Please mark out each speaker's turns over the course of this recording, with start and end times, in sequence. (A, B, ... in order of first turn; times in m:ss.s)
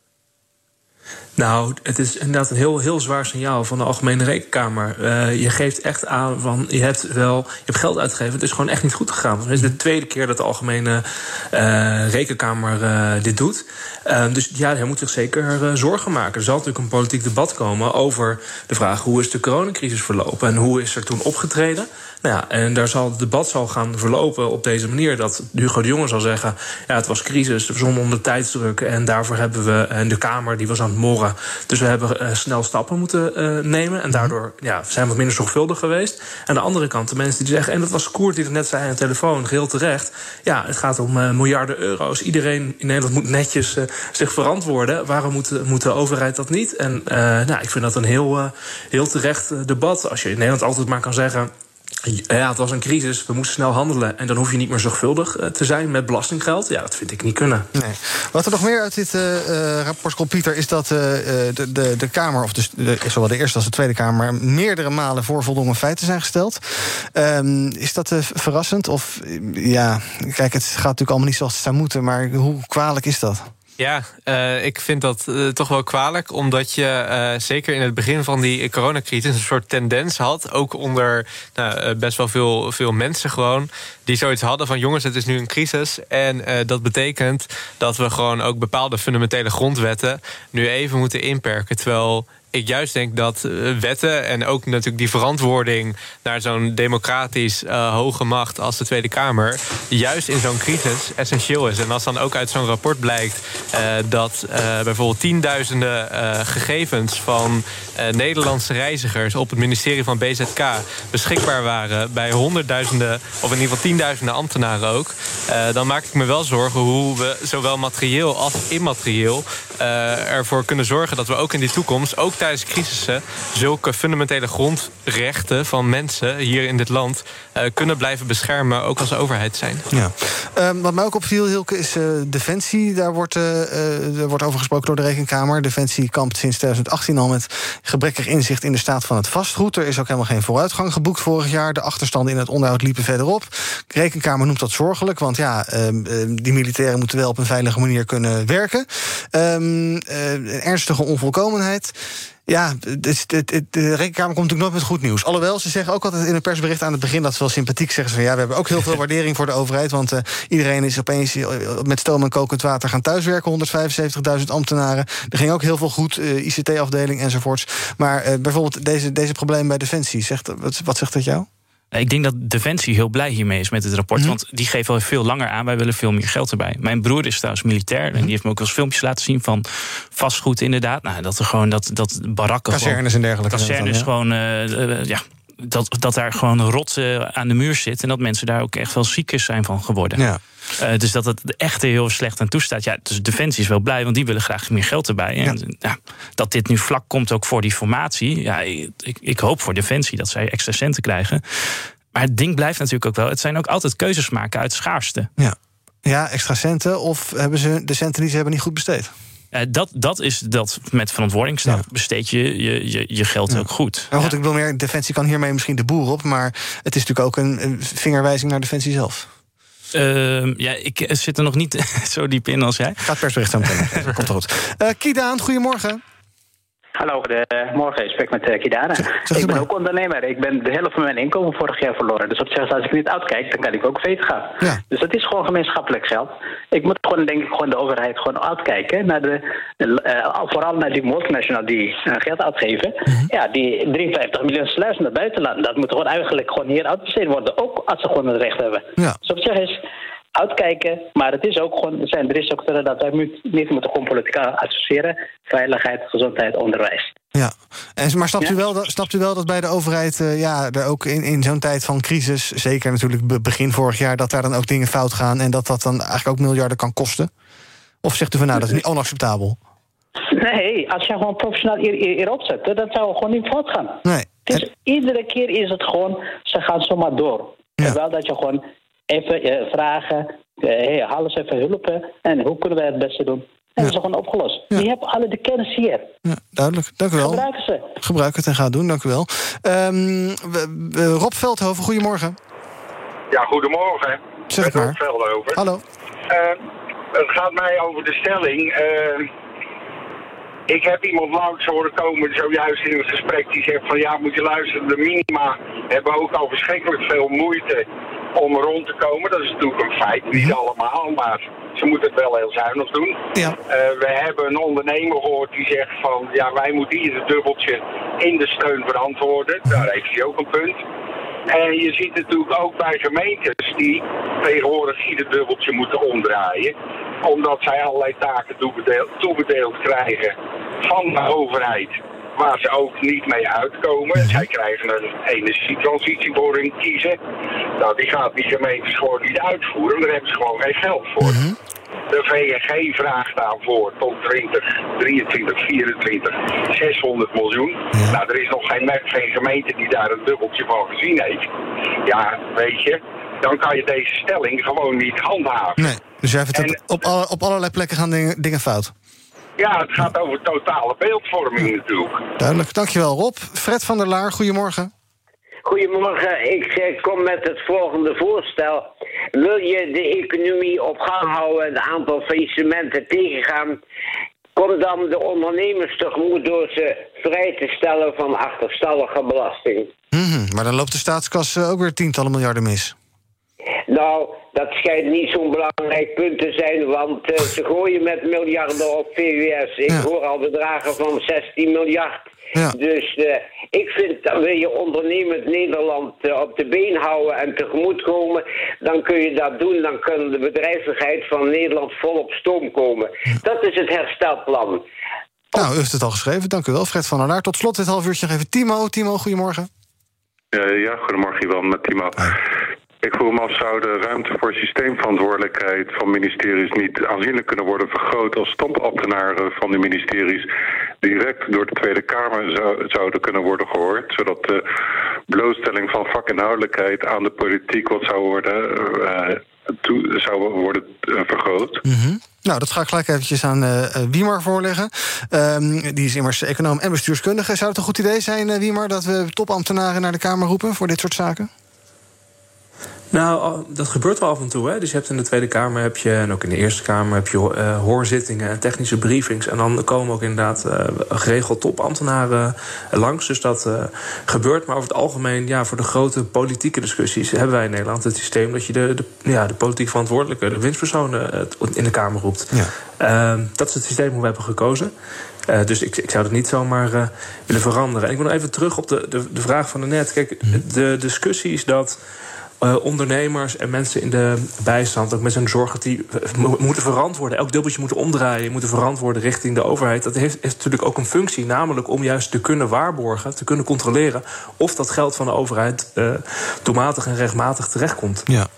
0:01.4-0:51.5 A
0:52.0-0:57.7 A
0:57.7-1:13.5 B
1:13.8-2:09.9 C
2:09.9-2:51.5 B
2:51.9-3:03.0 D
3:02.7-3:04.1 B
3:03.5-3:10.2 D
3:10.8-3:25.3 D
3:25.4-3:29.1 B
3:29.5-3:34.3 D
3:33.5-3:39.3 B
3:39.9-3:44.1 D
3:43.0-3:46.0 B
3:47.0-4:09.8 E
3:49.2-3:49.7 B
4:10.4-4:17.1 E
4:17.3-4:27.3 B
4:28.0-4:29.6 B
4:30.3-4:46.1 E
4:34.0-4:34.6 B
4:46.2-4:47.4 B
4:47.2-4:47.9 E
4:48.0-4:52.4 B
4:53.3-4:55.6 F
4:54.5-4:55.0 B
4:55.5-4:55.8 B
4:56.3-4:56.6 F
4:57.1-4:59.3 F
5:00.7-5:07.8 F
5:08.4-5:20.8 F
5:21.5-5:37.2 F
5:34.2-5:34.4 B
5:37.8-5:41.4 F
5:41.2-5:41.6 B
5:42.1-5:51.5 F
5:47.9-5:48.2 B
5:52.0-5:55.9 F
5:55.8-5:58.9 B
5:59.6-6:02.2 F
6:02.4-6:04.9 B
6:05.7-6:13.8 G
6:14.6-6:19.9 G
6:20.1-6:23.0 B
6:23.9-6:44.8 G
6:45.5-6:49.7 B
6:50.5-6:52.4 H
6:53.0-7:00.5 H
7:01.0-7:04.6 H
7:05.3-7:11.8 H
7:11.8-7:21.5 B
7:23.1-7:44.9 A
7:45.5-7:52.0 A
7:52.6-8:08.3 A